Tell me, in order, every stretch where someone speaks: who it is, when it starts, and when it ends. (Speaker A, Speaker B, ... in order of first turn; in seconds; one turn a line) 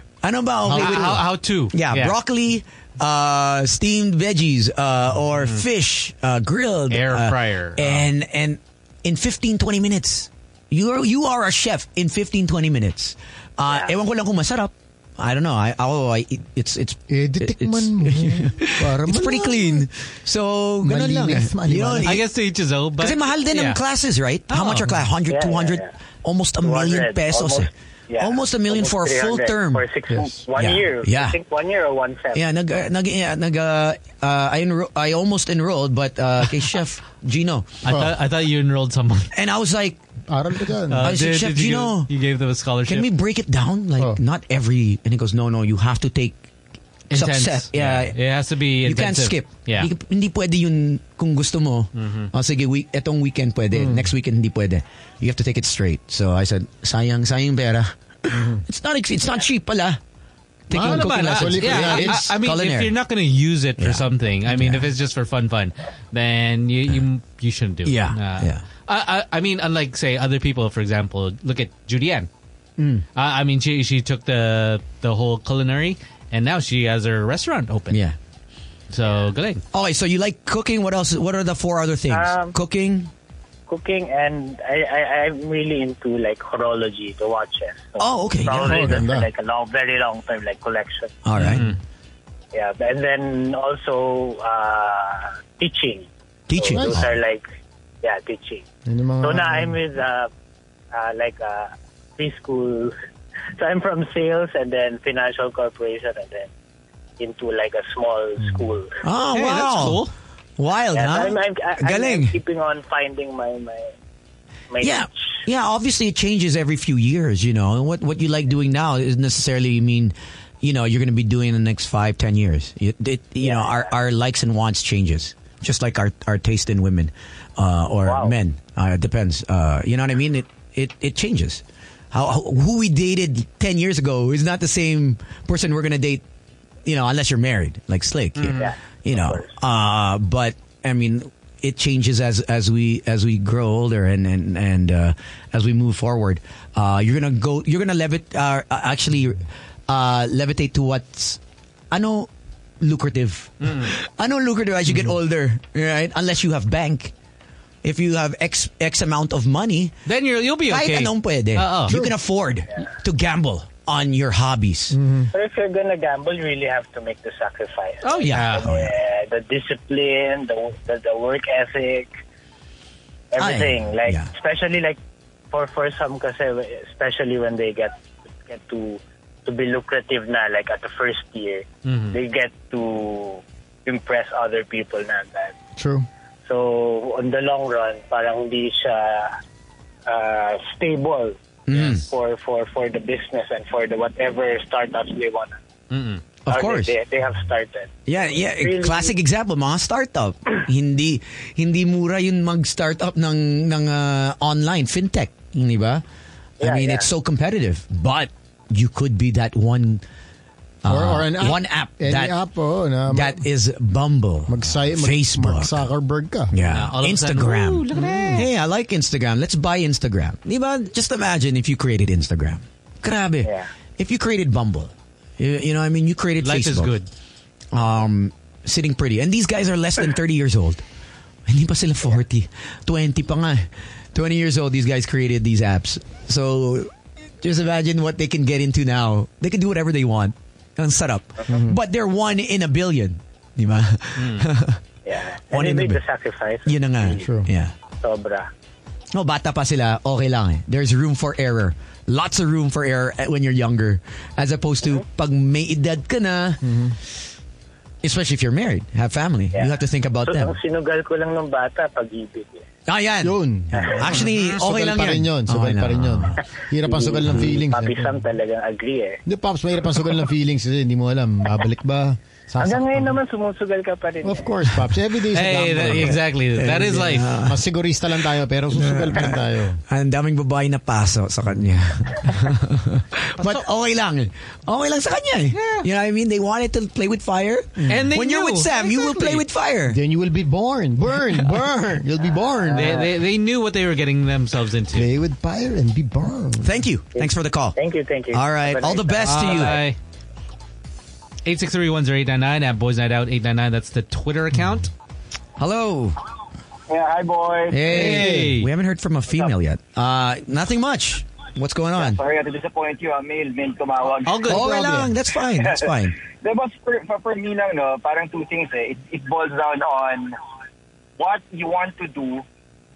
Speaker A: 0.2-22.3
Speaker B: 0.7-1.2
Speaker C: 0.7-2.2
Speaker C: 5.4-5.6
Speaker C: 6.9-8.0
Speaker D: 13.7-13.9
Speaker B: 17.1-19.8
Speaker B: 20.8-22.2
Speaker C: 22.0-23.8
Speaker A: 23.0-29.9
Speaker C: 24.5-24.9
Speaker D: 25.3-25.9
Speaker D: 26.6-32.5
Speaker B: 30.1-30.4
Speaker A: 30.6-31.4
Speaker A: 32.3-37.7
Speaker C: 37.8-39.3
Speaker B: 37.9-38.1
Speaker A: 39.3-40.0
Speaker B: 40.3-41.1
Speaker C: 40.9-43.1
Speaker A: 41.0-42.1
Speaker A: 42.9-46.4
Speaker C: 47.1-49.9
Speaker A: 47.1-48.2
Speaker A: 48.8-60.0
Speaker C: 52.0-52.3
Speaker B: 53.7-54.1
Speaker B: 58.3-58.6
Speaker A: 60.7-63.0
Speaker B: 60.7-62.3
Speaker C: 60.7-72.3
Speaker A: 63.8-64.9
Speaker A: 67.8-68.6
Speaker A: 72.8-73.0
Speaker C: 73.2-78.0
Speaker A: 77.9-78.2
Speaker C: 78.9-79.6
Speaker A: 79.7-83.1
Speaker D: 82.1-82.6
Speaker D: 83.7-91.2
Speaker A: 88.0-89.0
Speaker B: 88.6-89.3
Speaker A: 91.2-91.7
Speaker C: 91.4-91.8
Speaker D: 92.5-97.5
Speaker A: 96.5-97.1
Speaker B: 96.8-97.0
Speaker D: 98.0-98.7
Speaker B: 98.9-99.8
Speaker D: 99.2-100.3
Speaker D: 100.9-103.0
Speaker D: 103.6-106.5
Speaker D: 107.2-109.0
Speaker A: 109.0-110.1
Speaker C: 109.3-110.1
Speaker A: 110.6-112.4
Speaker D: 110.9-113.9
Speaker D: 114.7-115.4
Speaker A: 114.8-136.2
Speaker D: 123.4-123.9
Speaker D: 128.0-128.4
Speaker A: 136.8-151.4
Speaker C: 138.4-138.7
Speaker D: 138.6-139.5
Speaker A: 151.9-157.1
Speaker C: 153.6-153.9
Speaker A: 157.8-159.9
Speaker C: 160.1-161.9
Speaker A: 160.6-165.0
Speaker B: 161.9-162.1
Speaker B: 164.9-165.3
Speaker D: 165.3-172.1
Speaker C: 168.0-168.7
Speaker A: 168.2-168.9
Speaker D: 173.3-175.0
Speaker A: 173.4-174.3
Speaker D: 175.5-185.6
Speaker C: 181.9-182.2
Speaker B: 185.8-186.1
Speaker D: 186.5-189.3
Speaker D: 190.1-191.4
Speaker A: 191.7-192.0
Speaker D: 192.0-195.6
Speaker C: 195.9-196.2
Speaker A: 196.5-196.9
Speaker D: 196.5-199.2
Speaker A: 198.1-206.0
Speaker D: 206.6-207.1
Speaker A: 206.6-210.0
Speaker A: 210.8-212.4
Speaker B: 210.9-213.4
Speaker A: 213.1-215.9
Speaker B: 214.5-216.5
Speaker A: 216.5-226.9
Speaker C: 216.7-218.5
Speaker B: 218.0-218.3
Speaker D: 223.4-223.7
Speaker C: 226.4-227.1
Speaker A: 227.7-230.8
Speaker A: 231.5-244.8
Speaker B: 241.5-241.8
Speaker C: 244.2-244.5
Speaker D: 245.1-247.3
Speaker A: 245.5-246.0
Speaker A: 246.7-247.7
Speaker B: 247.2-247.5
Speaker D: 248.0-248.5
Speaker A: 249.1-256.6
Speaker B: 256.6-257.0
Speaker A: 258.0-260.5
Speaker D: 259.5-262.6
Speaker A: 262.9-266.3
Speaker B: 263.2-268.2
Speaker D: 263.8-264.0
Speaker C: 264.3-264.5
Speaker D: 266.8-269.2
Speaker B: 269.3-273.2
Speaker D: 272.6-274.6
Speaker B: 274.2-276.2
Speaker C: 275.3-277.3
Speaker A: 276.6-277.6
Speaker B: 277.4-279.8
Speaker A: 278.7-290.0
Speaker C: 285.5-285.9
Speaker B: 287.8-288.1
Speaker C: 287.9-289.4
Speaker B: 289.9-293.1
Speaker C: 292.7-295.1
Speaker D: 292.8-293.1
Speaker B: 294.9-296.7
Speaker A: 296.6-297.8
Speaker D: 297.1-299.7
Speaker A: 298.3-299.9
Speaker C: 299.2-300.0
Speaker C: 301.4-304.9
Speaker A: 305.6-306.2
Speaker E: 306.9-307.9
Speaker A: 307.7-312.2
Speaker C: 307.9-308.7
Speaker B: 307.9-308.5
Speaker E: 312.0-314.5
Speaker C: 314.3-315.0
Speaker A: 314.4-316.2
Speaker B: 314.5-315.1
Speaker E: 315.6-320.4
Speaker E: 321.2-322.4